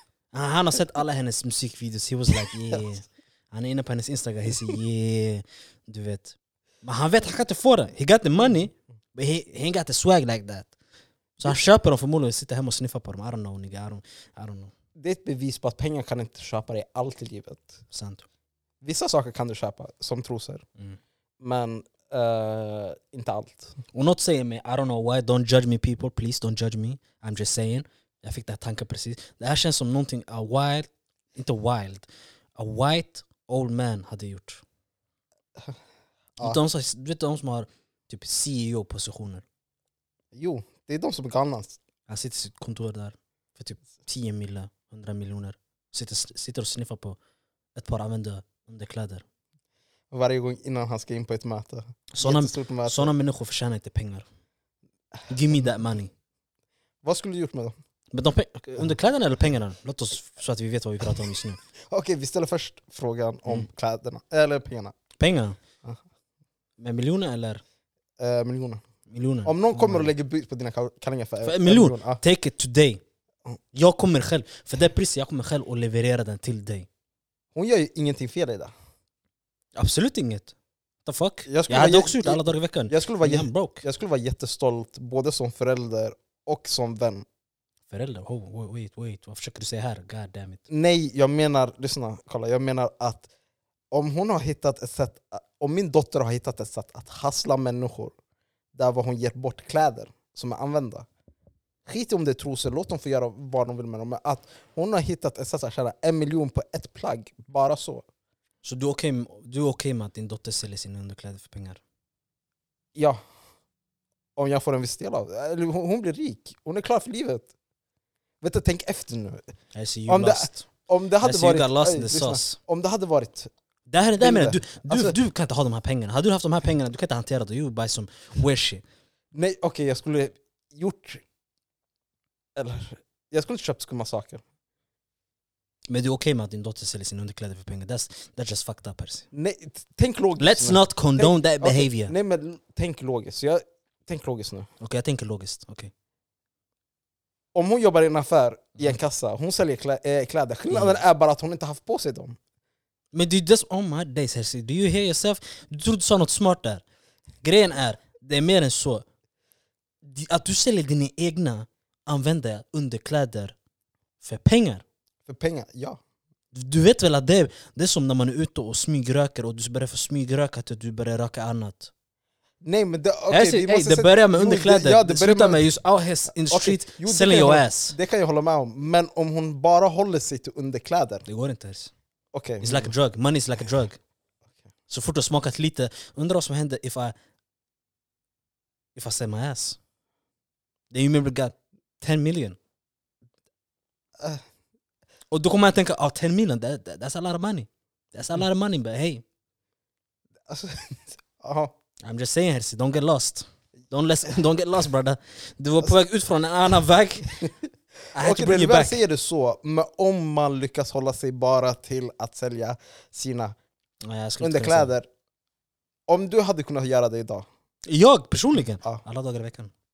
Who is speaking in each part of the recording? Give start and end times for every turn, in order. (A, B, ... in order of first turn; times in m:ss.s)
0:00.3-0:10.7 A
0:11.4-0:14.7 A
0:15.0-0:17.8 B
0:17.9-0:18.2 A
0:18.8-0:20.6 B
0:21.4-0:23.8 B
0:23.9-0:34.6 A
0:36.4-0:39.4 A
0:40.3-0:41.8 B
0:42.1-0:47.2 A
0:47.7-0:49.2 A
0:50.1-0:53.1 B
0:52.1-0:54.2 A
0:55.3-0:56.1 A
0:57.0-0:57.8 B
0:58.1-1:01.6 A
1:01.9-1:05.0 B
1:05.2-1:05.6 A
1:06.8-1:07.6 A
1:08.2-1:08.8 B
1:09.1-1:10.1 A
1:09.4-1:12.2 B
1:11.4-1:13.0 A
1:13.7-1:16.9 A
1:17.5-1:18.7 B
1:19.7-1:20.5 A
1:21.0-1:23.8 A
1:21.4-1:27.2 B
1:27.9-1:30.6 A
1:30.7-1:33.3 B
1:33.9-1:38.1 B
1:38.7-1:41.0 B
1:41.8-1:48.0 B
1:48.6-1:51.8 A
1:54.4-1:57.5 B
1:58.4-1:59.4 B
1:59.7-2:00.7 A
2:00.1-2:03.5 B
2:01.2-2:02.6 A
2:03.9-2:08.8 A
2:04.2-2:05.2 B
2:09.3-2:11.2 B
2:12.6-2:14.4 B
2:15.9-2:19.2 A
2:19.3-2:24.7 B
2:20.4-2:22.1 A
2:24.8-2:25.9 A
2:27.5-2:32.4 B
2:30.7-2:31.0 A
2:33.1-2:36.8 A
2:37.4-2:39.0 A
2:40.0-2:43.5 A
2:44.2-2:44.8 A
2:45.3-2:46.0 B
2:46.5-2:51.9 A
2:52.6-2:55.6 B
2:53.3-2:58.0 A
2:56.4-3:01.2 B
3:01.2-3:01.9 A
3:02.3-3:02.9 B
3:02.6-3:04.0 A
3:04.9-3:07.1 A
3:08.9-3:09.8 A
3:10.9-3:12.6 A
3:15.3-3:19.2 A
3:20.5-3:21.7 B
3:22.0-3:27.3 A
3:28.1-3:29.0 A
3:28.2-3:33.5 B
3:34.0-3:34.9 A
3:34.4-3:35.1 B
3:36.1-3:37.4 B
3:37.8-3:39.7 A